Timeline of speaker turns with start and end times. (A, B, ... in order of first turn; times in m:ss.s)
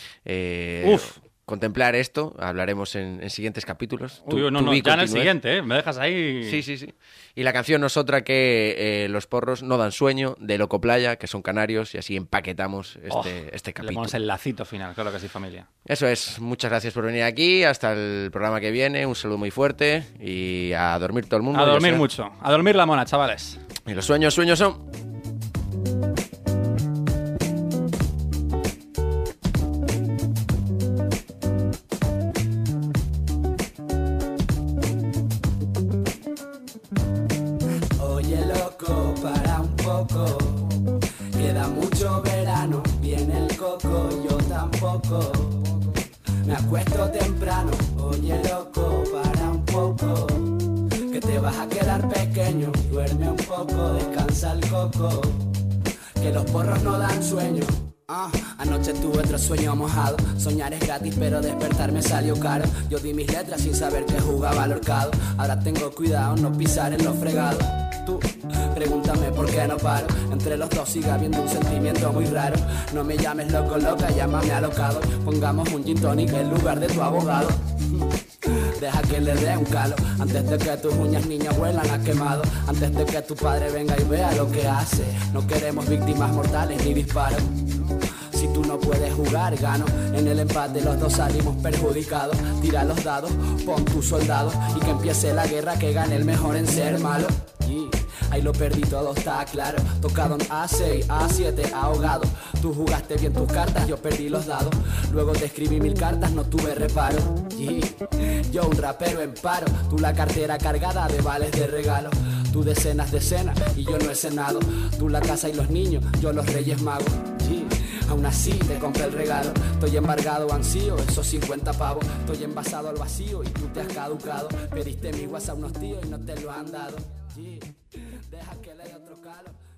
0:00.2-0:05.3 A
0:00.8-0:01.2 B
0:04.2-0:06.6 B
0:06.4-0:14.1 A
0:13.1-0:15.7 B
0:15.8-0:22.1 A
0:21.5-0:23.6 B
0:23.9-0:24.8 A
0:38.0-0:40.8 C
0:41.4-0:45.8 C
0:46.4-0:55.6 C
0:56.2-1:27.5 C
1:28.3-2:09.6 C